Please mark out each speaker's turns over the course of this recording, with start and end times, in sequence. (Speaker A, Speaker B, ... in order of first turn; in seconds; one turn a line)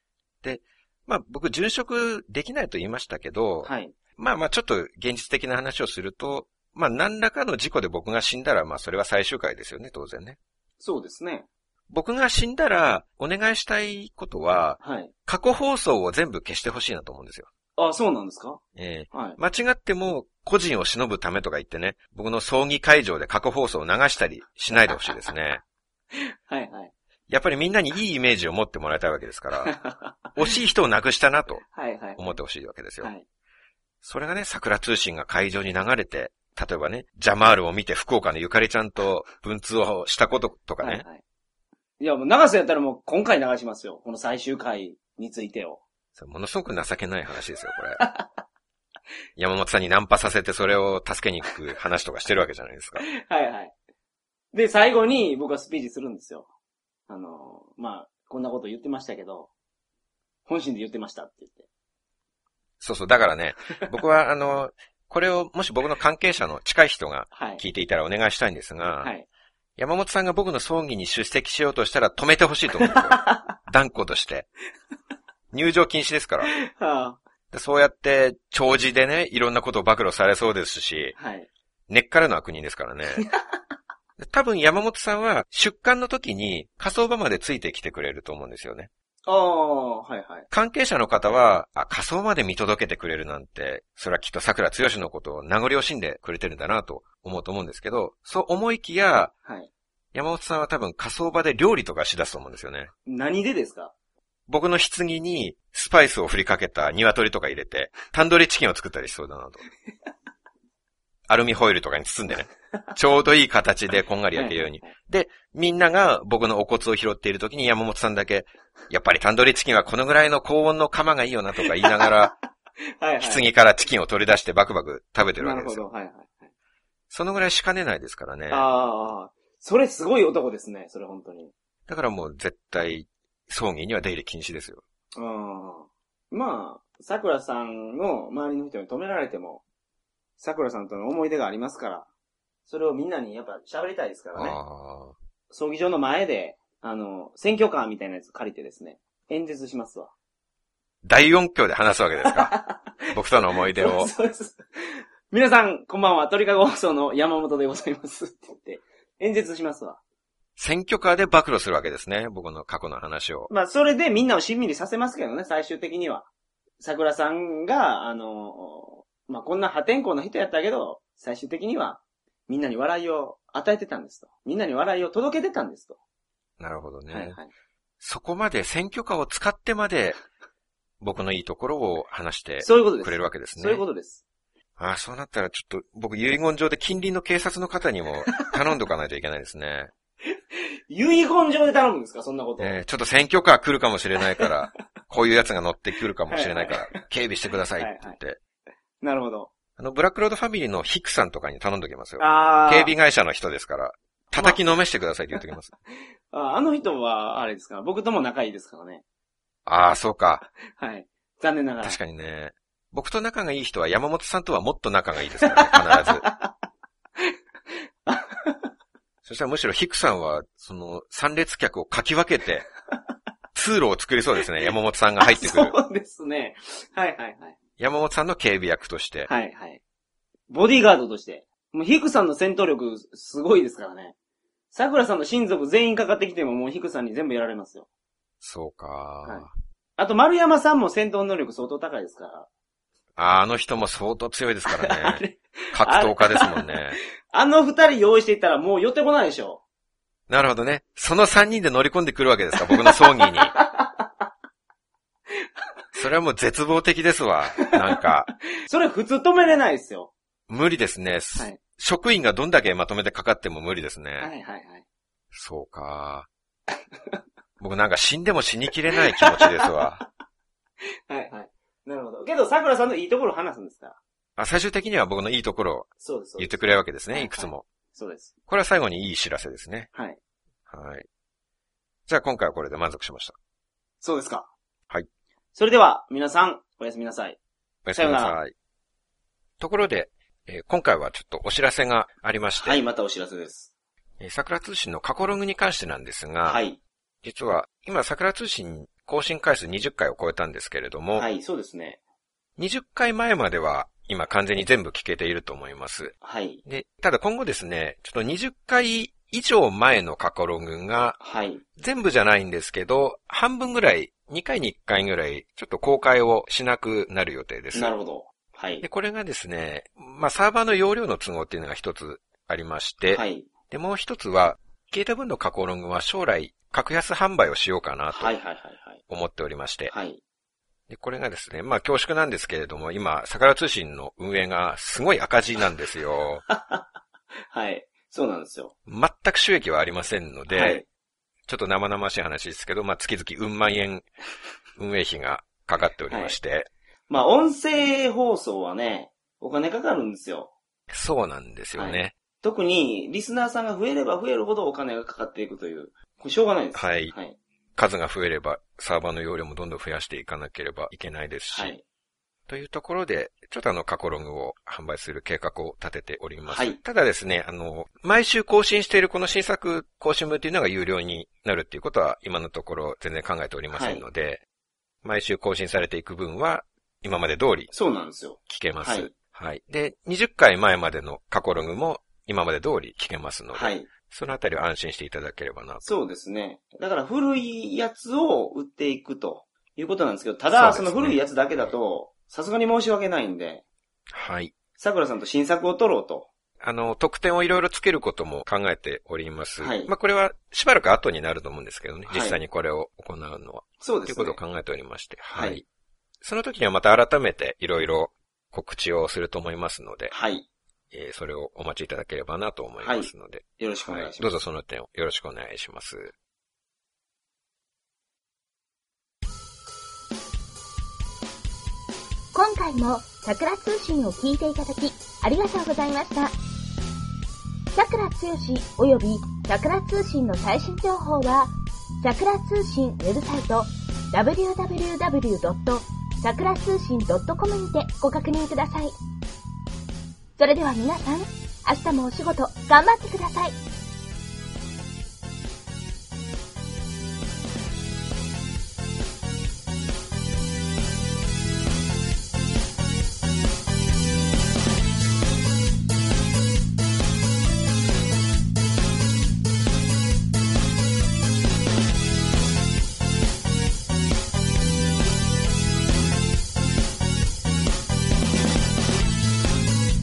Speaker A: 0.4-10.4
Speaker B: 3.6-4.0
Speaker B: 10.8-11.5
Speaker A: 11.9-17.5
Speaker B: 14.8-15.1
Speaker B: 17.8-18.6
Speaker A: 18.8-25.6
Speaker B: 19.1-19.4
Speaker B: 24.9-25.2
Speaker B: 26.1-26.9
Speaker A: 27.3-29.8
Speaker B: 29.6-30.4
Speaker A: 30.4-31.6
Speaker B: 31.6-32.4
Speaker A: 32.2-33.1
Speaker A: 34.0-41.0
Speaker B: 40.8-41.2
Speaker B: 42.0-45.8
Speaker A: 46.2-48.0
Speaker B: 48.0-48.3
Speaker A: 49.4-53.1
Speaker B: 53.0-53.7
Speaker B: 54.5-56.5
Speaker B: 57.1-59.5
Speaker B: 60.5-61.7
Speaker A: 62.8-69.1
Speaker B: 67.3-67.6
Speaker A: 69.8-74.5
Speaker B: 72.8-73.5
Speaker A: 75.5-76.5
Speaker B: 76.5-77.2
Speaker A: 77.5-81.2
Speaker B: 81.2-81.5
Speaker A: 81.9-83.3
Speaker A: 84.2-88.9
Speaker B: 89.3-90.5
Speaker A: 90.5-99.3
Speaker B: 99.5-99.7
Speaker A: 100.1-102.9
Speaker B: 103.1-103.9
Speaker A: 104.5-109.6
Speaker A: 111.3-122.4
Speaker B: 114.3-114.9
Speaker B: 121.8-122.4
Speaker B: 123.0-123.5
Speaker A: 123.2-125.8
Speaker B: 125.4-126.4
Speaker A: 127.1-128.7
Speaker B: 128.5-131.5
Speaker A: 131.9-134.8
Speaker B: 135.2-139.6
Speaker B: 140.4-142.1
Speaker B: 142.7-144.6
Speaker A: 144.3-145.2
Speaker B: 145.5-150.1
Speaker A: 151.0-152.6
Speaker B: 152.2-153.1
Speaker A: 153.1-154.1
Speaker B: 153.7-154.6
Speaker B: 155.3-160.0
Speaker A: 160.6-163.5
Speaker B: 163.5-166.3
Speaker B: 166.8-176.0
Speaker A: 176.6-177.4
Speaker B: 177.1-177.5
Speaker A: 178.0-180.2
Speaker A: 181.0-183.8
Speaker B: 182.6-184.2
Speaker A: 184.8-189.9
Speaker B: 190.9-192.8
Speaker A: 192.6-198.4
Speaker B: 196.3-197.0
Speaker B: 197.8-198.2
Speaker B: 199.0-199.5
Speaker A: 199.8-205.7
Speaker B: 202.2-202.9
Speaker B: 204.3-204.6
Speaker B: 206.3-209.0
Speaker A: 209.7-210.5
Speaker B: 210.8-212.0
Speaker A: 211.8-216.3
Speaker B: 215.4-216.5
Speaker B: 218.1-218.7
Speaker A: 219.2-222.7
Speaker A: 223.5-225.8
Speaker B: 225.2-227.6
Speaker A: 227.8-229.3
Speaker B: 229.3-229.8
Speaker B: 230.5-234.2
Speaker B: 234.7-237.9
Speaker A: 238.4-239.5
Speaker B: 240.0-242.5
Speaker A: 243.2-247.0
Speaker B: 244.7-246.7
Speaker B: 247.3-249.6
Speaker A: 250.3-253.6
Speaker B: 252.7-254.1
Speaker A: 256.0-258.3
Speaker B: 258.6-260.1
Speaker A: 260.5-264.3
Speaker B: 264.2-264.9
Speaker A: 265.3-266.3
Speaker A: 267.6-270.0
Speaker B: 269.1-270.0
Speaker B: 271.1-274.0
Speaker A: 274.4-277.6
Speaker B: 276.0-278.3
Speaker A: 278.5-279.9
Speaker B: 279.9-280.2
Speaker A: 280.7-281.1
Speaker A: 282.1-283.4
Speaker B: 284.0-284.5
Speaker B: 285.6-287.4
Speaker A: 287.9-288.5
Speaker B: 288.0-288.4
Speaker A: 289.6-292.8
Speaker B: 292.6-293.7
Speaker A: 294.2-296.6
Speaker B: 296.4-296.8
Speaker A: 297.2-301.3
Speaker B: 301.1-302.0
Speaker A: 302.6-306.1
Speaker B: 306.2-306.6
Speaker A: 306.7-311.2
Speaker B: 311.2-311.6
Speaker A: 311.8-317.9
Speaker B: 317.7-318.9
Speaker A: 318.8-328.4
Speaker B: 323.1-323.5
Speaker B: 328.1-329.0
Speaker A: 329.1-329.9
Speaker B: 329.9-330.2
Speaker A: 330.9-336.4
Speaker B: 336.5-336.8
Speaker B: 337.5-338.7
Speaker A: 338.9-340.8
Speaker B: 340.5-340.9
Speaker A: 341.5-344.1
Speaker A: 344.8-346.7
Speaker B: 346.1-346.4
Speaker B: 347.1-350.5
Speaker A: 350.9-352.1
Speaker B: 351.8-357.4
Speaker A: 356.8-357.1
Speaker A: 357.8-361.8
Speaker B: 361.5-361.8
Speaker A: 362.5-374.4
Speaker B: 366.5-366.8
Speaker B: 373.7-374.1
Speaker A: 375.0-377.7
Speaker B: 377.7-379.1
Speaker A: 378.5-385.9
Speaker B: 383.5-383.9
Speaker B: 385.8-393.6
Speaker A: 390.5-391.2
Speaker A: 394.1-394.5
Speaker B: 394.8-396.3
Speaker A: 396.6-405.6
Speaker B: 399.6-399.9
Speaker B: 402.1-402.4
Speaker B: 403.8-404.4
Speaker B: 405.3-405.6
Speaker A: 406.2-410.1
Speaker B: 410.1-410.5
Speaker A: 410.9-416.1
Speaker B: 412.8-414.3
Speaker C: 422.3-426.3
Speaker C: 427.7-431.5
Speaker C: 432.0-438.9
Speaker C: 440.4-443.6